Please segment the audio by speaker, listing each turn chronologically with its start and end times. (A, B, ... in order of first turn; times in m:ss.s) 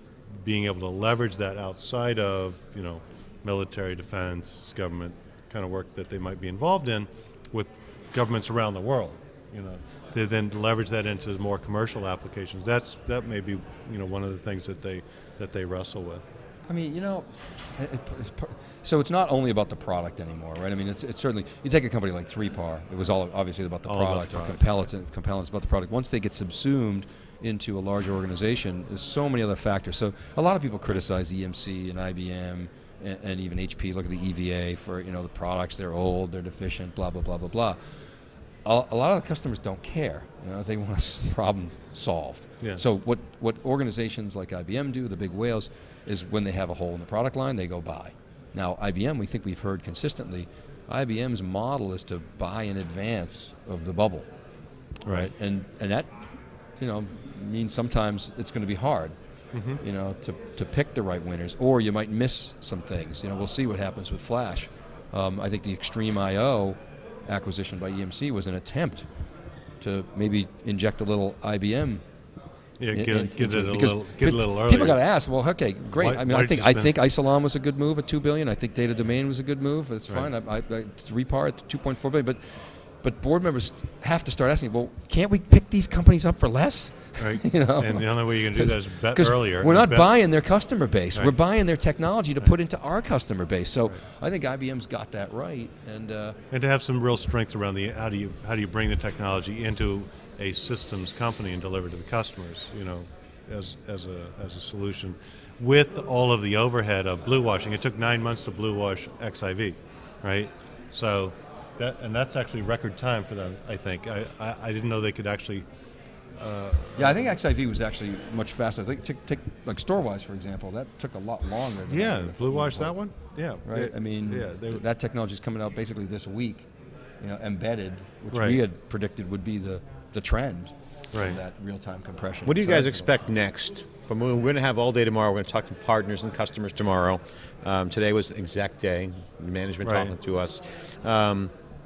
0:00.3-0:16.2 A
0:16.7-0:37.8 B
0:23.8-0:24.6 A
0:38.6-0:54.3 B
0:55.0-0:55.3 A
0:55.0-0:56.1 B
0:56.8-0:59.1 B
0:59.5-0:59.8 A
0:59.8-1:09.0 B
1:09.8-1:12.0 B
1:12.8-1:15.0 A
1:12.9-1:22.4 B
1:15.9-1:16.9 A
1:23.0-1:36.4 B
1:27.2-1:30.1 A
1:36.5-1:55.6 A
1:56.4-1:57.2 A
1:56.9-2:02.9 B
2:01.9-2:04.8 A
2:03.6-2:06.7 B
2:07.2-2:13.1 B
2:08.3-2:08.6 A
2:11.1-2:11.4 A
2:12.4-2:21.5 C
2:19.8-2:20.1 A